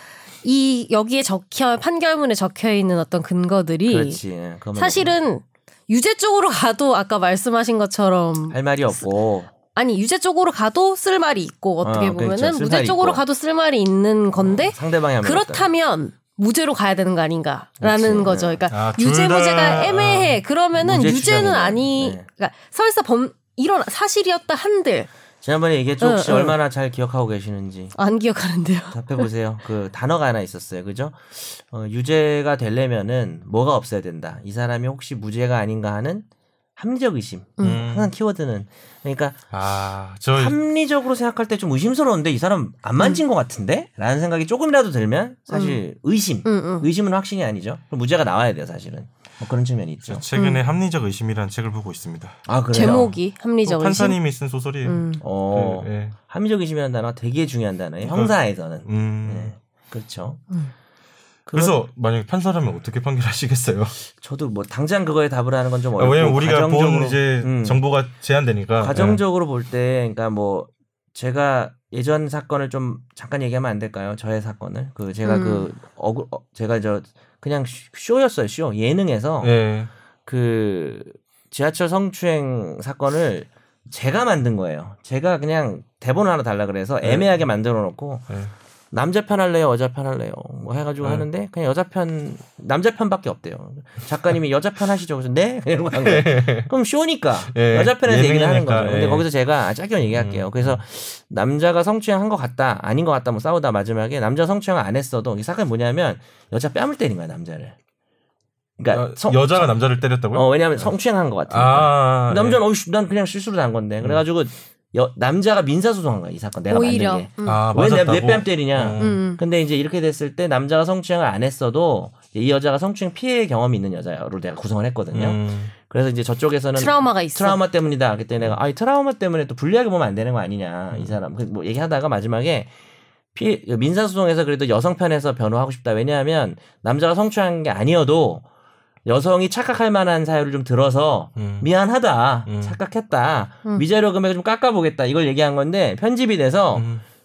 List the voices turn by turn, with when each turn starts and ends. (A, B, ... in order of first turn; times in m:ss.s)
0:00.4-0:04.2 A
0:03.9-0:05.2 B
0:04.8-0:09.0 A
0:08.5-0:09.5 B
0:09.6-0:25.1 A
0:11.8-0:13.2 B
0:14.4-0:15.7 B
0:17.8-0:18.7 B
0:18.7-0:20.4 C
0:20.8-0:22.3 B
0:25.4-0:28.0 B
0:26.0-0:26.6 A
0:28.0-0:29.2 A
0:28.9-0:36.3 B
0:36.8-0:39.4 B
0:37.6-0:38.1 C
0:39.5-0:40.6 C
0:40.4-0:50.2 B
0:45.5-0:45.8 A
0:46.4-0:46.9 A
0:50.1-0:53.0 C
0:50.4-0:50.6 A
0:52.5-0:53.1 B
0:52.7-0:54.2 A
0:53.6-0:56.2 C
0:54.8-0:55.2 A
0:55.2-1:00.4 B
0:58.0-0:59.5 C
1:01.5-1:01.8 B
1:01.5-1:04.0 C
1:04.2-1:07.8 B
1:06.0-1:09.2 C
1:08.8-1:19.5 B
1:15.2-1:15.7 A
1:19.4-1:19.9 C
1:20.3-1:28.3 B
1:27.0-1:27.3 C
1:28.9-1:47.8 B
1:31.0-1:31.3 C
1:36.0-1:36.7 C
1:37.5-1:39.3 C
1:40.0-1:40.8 C
1:48.8-1:49.7 B
1:48.9-1:50.9 C
1:50.3-2:12.7 B
1:51.5-1:52.6 C
1:56.7-1:57.6 A
1:57.4-1:59.2 C
1:59.0-1:59.4 A
2:05.1-2:05.7 C
2:06.8-2:07.6 A
2:10.9-2:11.2 C
2:13.4-2:18.4 B
2:19.0-2:26.9 B
2:21.4-2:21.7 C
2:22.4-2:22.8 C
2:26.7-2:27.0 C